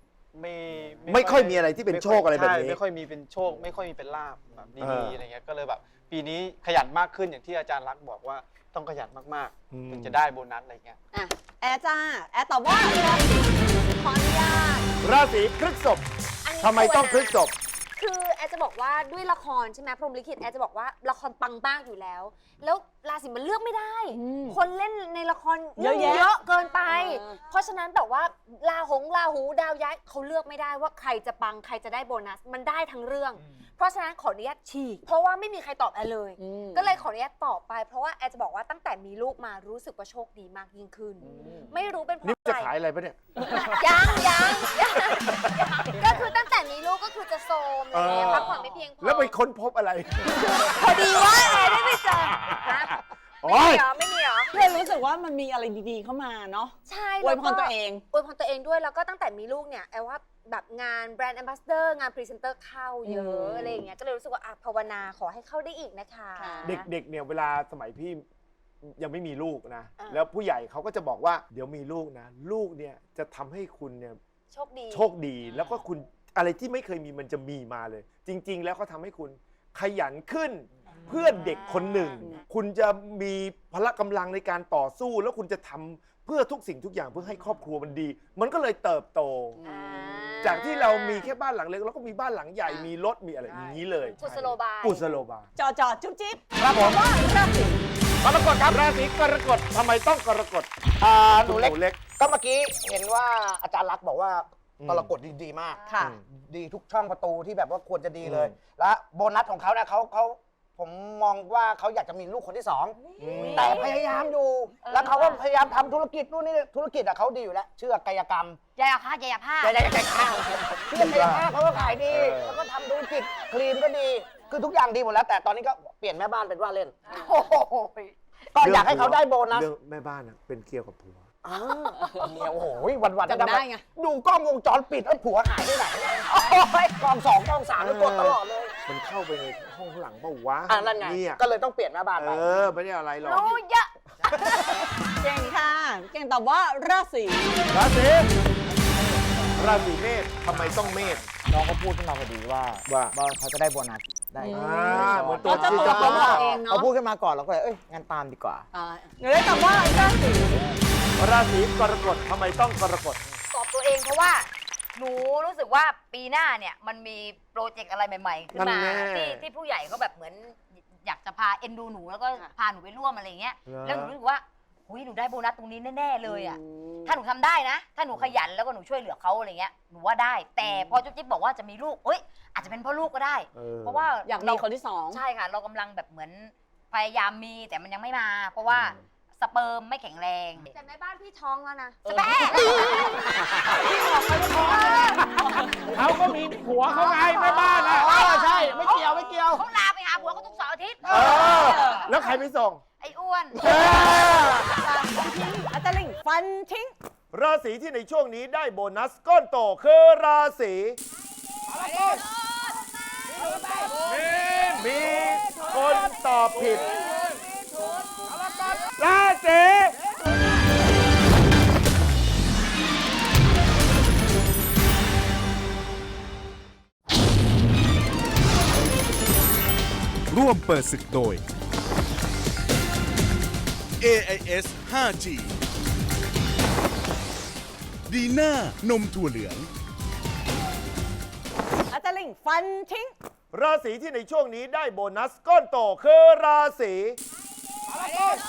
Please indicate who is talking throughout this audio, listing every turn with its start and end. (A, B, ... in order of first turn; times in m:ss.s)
0:00.3-0:11.0 A
0:01.1-0:02.8 B
0:04.8-0:05.2 B
0:09.7-0:10.2 B
0:11.2-0:13.7 C
0:13.9-0:14.9 D
0:15.0-0:16.0 B
0:16.4-0:17.4 D
0:16.6-0:17.5 B
0:18.0-0:42.7 D
0:24.1-0:24.6 C
0:25.8-0:27.4 C
0:36.4-0:36.9 C
0:41.2-0:41.7 C
0:42.2-0:44.0 B
0:43.4-0:49.3 D
0:45.1-0:46.0 B
0:47.9-0:52.9 B
0:48.1-0:48.6 C
0:50.4-0:54.6 D
0:53.4-0:53.9 B
0:54.5-0:58.0 C
0:56.9-1:06.9 D
1:03.0-1:03.8 C
1:06.4-1:06.8 C
1:06.6-1:08.2 B
1:08.8-1:14.2 B
1:14.5-1:15.1 D
1:14.9-1:29.6 B
1:21.3-1:22.3 D
1:29.6-1:30.2 C
1:29.6-1:31.3 D
1:30.4-1:35.5 B
1:33.7-1:35.0 D
1:35.6-1:37.9 C
1:36.7-1:37.0 E
1:38.2-1:38.8 E
1:38.6-1:40.7 B
1:41.0-1:58.6 E
1:41.4-1:42.0 B
1:44.8-1:45.2 B
1:45.9-1:46.2 C
1:48.2-1:48.5 B
1:53.2-1:53.7 B
1:58.8-1:59.6 F
1:59.6-2:09.7 E
2:00.9-2:01.5 B
2:02.1-2:02.6 B
2:08.6-2:11.3 B
2:11.4-2:18.7 E
2:13.2-2:13.8 C
2:17.8-2:21.4 B
2:20.7-2:22.6 E
2:22.2-2:23.6 B
2:25.0-2:27.5 C
2:27.7-2:28.3 B
2:29.1-2:29.6 E
2:29.6-2:31.3 B
2:30.5-2:31.2 A
2:31.5-2:38.7 G
2:32.9-2:33.1 B
2:34.4-2:36.9 C
2:34.4-2:36.6 B
2:38.7-2:40.7 C
2:41.2-2:43.2 B
2:43.5-3:10.7 F
2:48.5-2:49.5 B
2:53.7-2:54.2 B
2:56.2-2:57.2 C
2:58.1-2:58.4 B
3:03.5-3:04.1 B
3:04.2-3:05.2 C
3:08.7-3:09.0 B
3:10.7-3:15.1 D
3:12.1-3:13.0 C
3:12.1-3:13.2 F
3:13.9-3:14.7 E
3:14.6-3:15.0 F
3:15.9-3:18.1 B
3:16.0-3:18.0 D
3:18.0-3:19.7 E
3:19.6-3:22.0 F
3:21.0-3:22.8 B
3:21.6-3:22.1 C
3:23.0-3:23.6 F
3:23.6-3:24.7 B
3:23.7-3:26.9 C
3:27.3-3:31.0 B
3:34.1-3:36.9 B
3:39.0-3:40.0 B
3:50.3-3:51.4 H
3:54.0-3:55.6 H
3:58.1-3:59.7 H
4:01.9-4:03.1 C
4:03.5-4:07.2 B